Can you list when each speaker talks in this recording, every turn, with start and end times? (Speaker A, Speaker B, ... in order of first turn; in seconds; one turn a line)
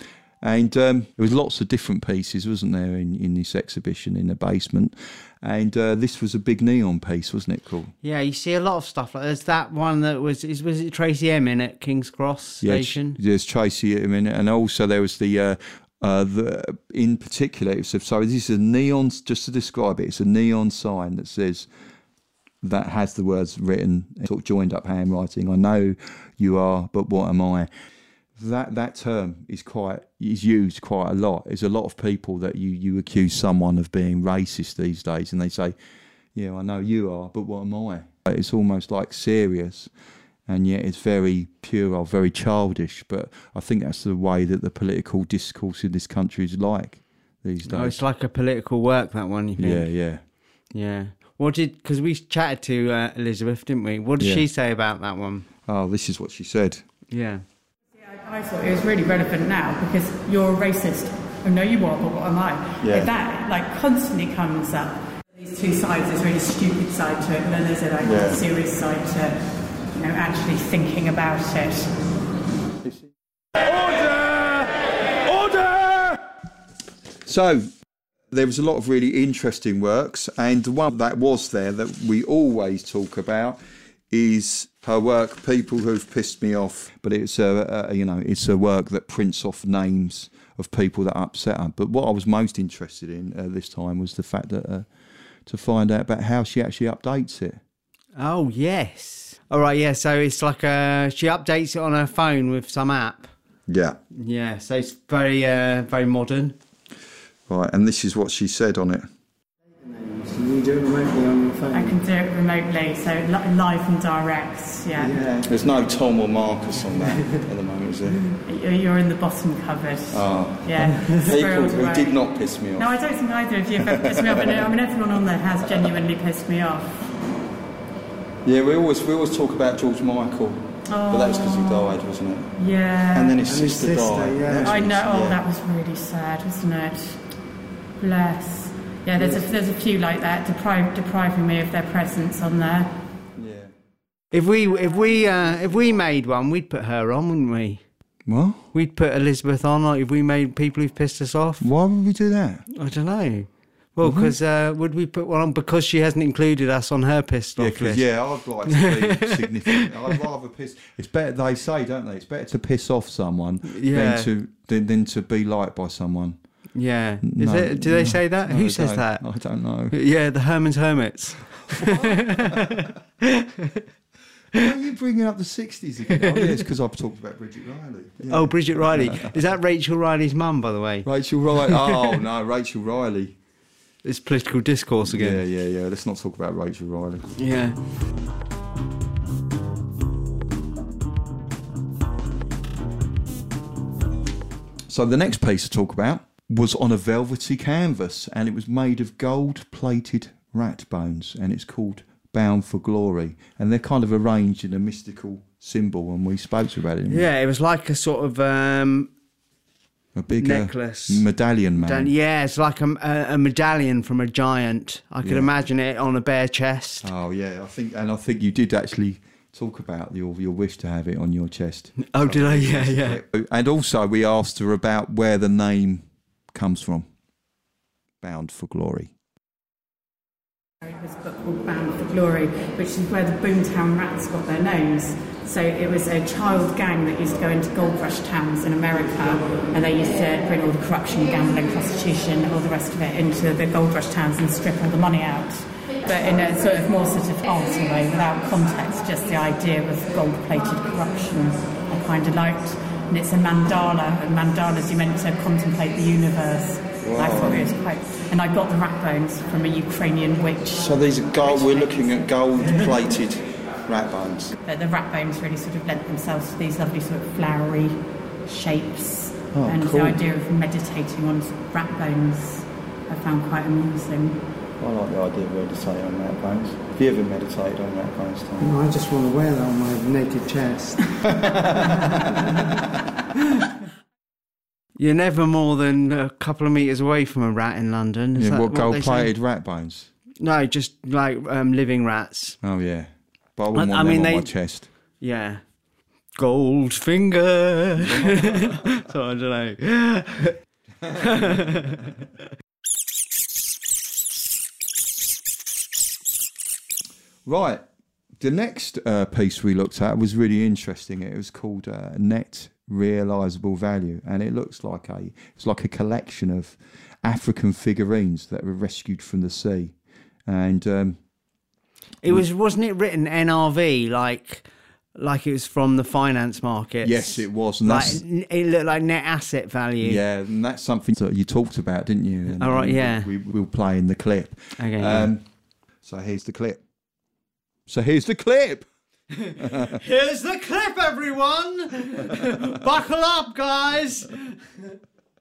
Speaker A: 0.4-7.9
Speaker B: 8.0-13.2
Speaker A: 12.6-21.7
Speaker A: 22.6-27.7
Speaker A: 28.4-35.8
Speaker A: 36.4-39.9
Speaker A: 40.5-48.0
Speaker B: 47.6-49.9
Speaker A: 49.6-50.2
Speaker B: 50.7-55.5
Speaker A: 54.2-54.5
Speaker A: 55.7-56.8
Speaker B: 57.1-57.4
Speaker C: 58.0-69.4
Speaker A: 62.8-63.1
Speaker A: 68.0-68.4
Speaker C: 69.9-71.9
Speaker A: 72.8-74.7
Speaker A: 75.2-76.2
Speaker A: 77.2-77.7
Speaker A: 78.3-94.9
Speaker A: 95.5-97.6
Speaker B: 98.2-103.3
Speaker A: 103.7-104.0
Speaker B: 104.1-106.6
Speaker A: 107.5-109.1
Speaker D: 109.8-112.0
Speaker C: 111.7-115.2
Speaker D: 115.0-115.5
Speaker A: 115.4-118.2
Speaker D: 117.0-117.4
Speaker C: 118.4-122.2
Speaker A: 120.1-122.9
Speaker C: 122.8-127.0
Speaker A: 123.8-124.7
Speaker A: 128.4-132.5
Speaker C: 130.9-131.9
Speaker C: 132.6-133.4
Speaker A: 133.1-135.4
Speaker D: 133.4-134.8
Speaker C: 134.6-137.2
Speaker C: 138.0-142.9
Speaker D: 139.2-139.4
Speaker A: 143.4-143.7
Speaker B: 144.3-147.8
Speaker A: 148.3-148.7
Speaker B: 148.7-151.7
Speaker A: 151.6-152.7
Speaker B: 152.7-158.0
Speaker A: 154.0-154.4
Speaker A: 157.6-166.4
Speaker B: 158.7-159.9
Speaker B: 163.7-164.3
Speaker B: 166.8-169.2
Speaker A: 167.2-169.9
Speaker B: 169.9-173.8
Speaker A: 171.7-172.8
Speaker A: 174.5-179.4
Speaker B: 176.1-176.6
Speaker B: 178.3-182.2
Speaker A: 181.1-183.4
Speaker B: 184.0-185.4
Speaker A: 185.1-187.3
Speaker B: 187.3-187.8
Speaker A: 194.9-207.3
Speaker B: 207.1-209.1
Speaker A: 210.2-212.1
Speaker B: 210.4-211.3
Speaker B: 211.8-217.1
Speaker A: 215.2-215.5
Speaker A: 217.0-227.1
Speaker B: 222.0-223.2
Speaker A: 228.2-229.1
Speaker C: 230.8-260.9
Speaker A: 257.0-257.7
Speaker A: 260.8-264.6
Speaker C: 261.4-262.3
Speaker C: 264.7-274.4
Speaker A: 269.5-270.2
Speaker A: 274.8-278.8
Speaker D: 278.6-282.8
Speaker A: 281.2-282.5
Speaker B: 285.0-289.3
Speaker A: 288.4-290.1
Speaker B: 290.4-292.6
Speaker A: 292.6-294.9
Speaker B: 293.7-294.5
Speaker B: 295.2-295.6
Speaker B: 296.4-302.2
Speaker A: 298.1-298.7
Speaker A: 307.5-307.8
Speaker A: 308.4-319.9
Speaker A: 320.5-321.2
Speaker B: 322.2-330.2
Speaker A: 327.0-328.2
Speaker A: 330.0-335.4
Speaker B: 332.6-333.3
Speaker B: 334.8-335.3
Speaker A: 336.0-336.8
Speaker A: 337.9-338.9
Speaker B: 339.4-344.4
Speaker A: 339.6-340.0